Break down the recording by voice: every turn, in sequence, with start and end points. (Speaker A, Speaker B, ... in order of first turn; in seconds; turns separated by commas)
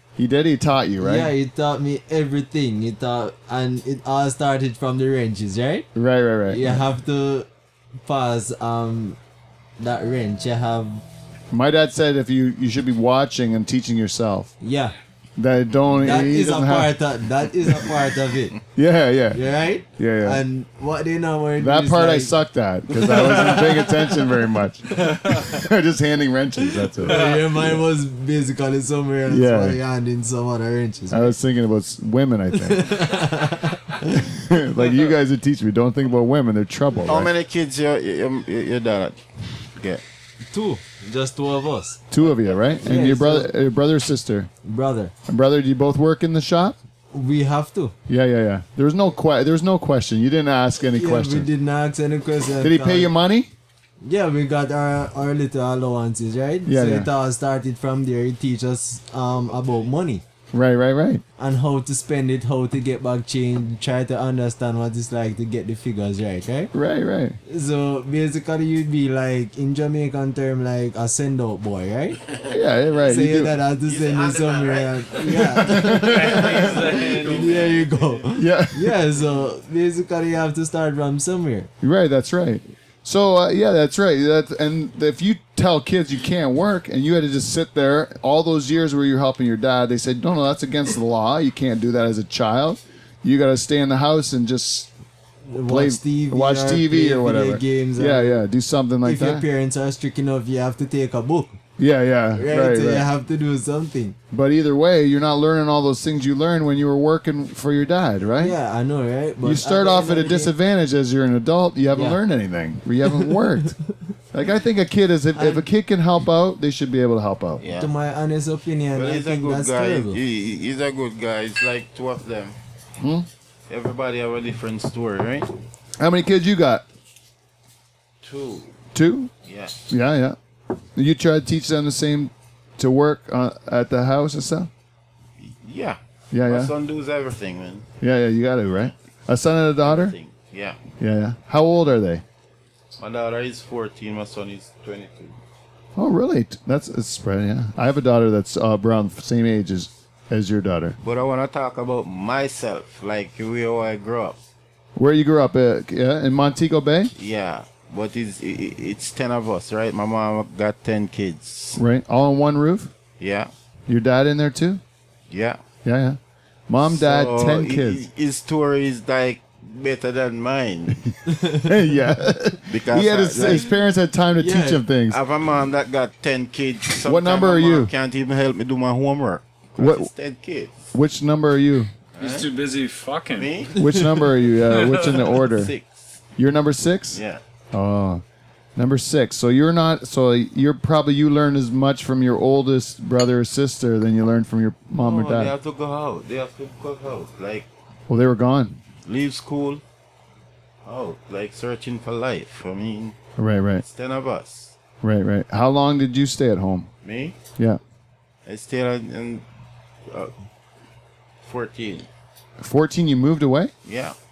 Speaker A: 0.2-1.3, Speaker B: 1.0-5.9, Speaker A: 6.0-6.8, Speaker B: 6.5-7.5, Speaker B: 8.0-9.2, Speaker B: 9.8-11.0, Speaker A: 11.5-14.5, Speaker B: 14.6-14.9, Speaker A: 15.4-16.9, Speaker B: 15.9-18.6, Speaker A: 18.8-19.4, Speaker B: 19.3-22.4, Speaker A: 20.0-20.4, Speaker A: 21.6-27.8, Speaker B: 22.9-24.0, Speaker B: 25.1-25.4, Speaker B: 27.0-31.4, Speaker C: 27.1-27.4, Speaker A: 29.3-29.8, Speaker A: 31.1-33.1, Speaker B: 32.6-34.3, Speaker A: 34.1-37.3, Speaker D: 37.0-39.2, Speaker D: 39.8-40.0, Speaker B: 40.5-42.0, Speaker A: 42.1-44.5, Speaker B: 42.8-43.5, Speaker B: 44.6-45.1, Speaker A: 45.3-46.8, Speaker B: 47.1-48.0, Speaker A: 48.1-51.5, Speaker B: 50.9-53.1, Speaker A: 52.6-53.5, Speaker B: 54.0-60.2, Speaker A: 56.7-57.1, Speaker D: 59.5-59.9, Speaker A: 60.5-61.2, Speaker B: 61.4-66.7, Speaker A: 66.7-67.4, Speaker B: 67.5-72.2, Speaker A: 72.5-73.5, Speaker B: 73.1-81.7, Speaker D: 73.8-78.0, Speaker A: 75.6-76.7, Speaker C: 76.0-77.8, Speaker A: 78.3-79.0, Speaker A: 81.8-94.9, Speaker B: 95.5-98.5, Speaker A: 95.7-99.5, Speaker B: 99.0-101.6, Speaker A: 101.8-103.1, Speaker B: 102.3-104.2, Speaker A: 104.3-108.6, Speaker B: 108.4-110.5, Speaker A: 109.4-113.8, Speaker B: 111.9-112.2, Speaker A: 114.3-117.6, Speaker B: 115.3-115.7, Speaker D: 117.6-117.9, Speaker B: 117.8-120.2, Speaker D: 119.0-122.6, Speaker A: 123.0-123.3, Speaker D: 123.7-125.5, Speaker A: 126.0-126.8, Speaker D: 128.2-128.7, Speaker A: 128.9-129.3, Speaker D: 129.4-129.8, Speaker A: 129.9-130.4, Speaker A: 131.0-134.7, Speaker D: 135.4-137.9, Speaker A: 136.3-136.7, Speaker A: 138.0-140.2, Speaker D: 139.8-140.8, Speaker A: 141.0-142.2, Speaker D: 143.0-145.4, Speaker A: 146.0-151.0, Speaker D: 151.0-154.4, Speaker A: 155.0-157.1, Speaker D: 157.1-161.8, Speaker A: 161.8-162.9, Speaker D: 163.2-163.5, Speaker A: 163.9-164.8, Speaker D: 165.3-165.6, Speaker A: 165.8-168.1, Speaker D: 166.8-171.0, Speaker A: 171.6-175.2, Speaker D: 172.7-173.7, Speaker B: 174.4-174.8, Speaker D: 175.1-180.9, Speaker A: 177.0-177.9, Speaker A: 179.8-180.1, Speaker A: 180.9-181.9, Speaker D: 182.2-182.5, Speaker C: 182.2-183.5, Speaker D: 183.4-183.9, Speaker A: 183.8-185.7, Speaker B: 183.8-184.2, Speaker C: 184.7-185.3, Speaker D: 185.3-186.1, Speaker A: 186.4-187.2, Speaker D: 187.1-187.4, Speaker A: 187.7-188.2, Speaker A: 188.8-195.5, Speaker D: 195.0-197.7, Speaker A: 198.1-198.8, Speaker D: 199.1-199.8, Speaker D: 200.8-203.2, Speaker A: 203.4-203.8, Speaker D: 203.8-204.8, Speaker A: 205.0-206.9, Speaker D: 207.0-207.4, Speaker D: 208.5-209.4, Speaker D: 211.4-212.1, Speaker A: 212.6-213.7, Speaker D: 213.8-214.2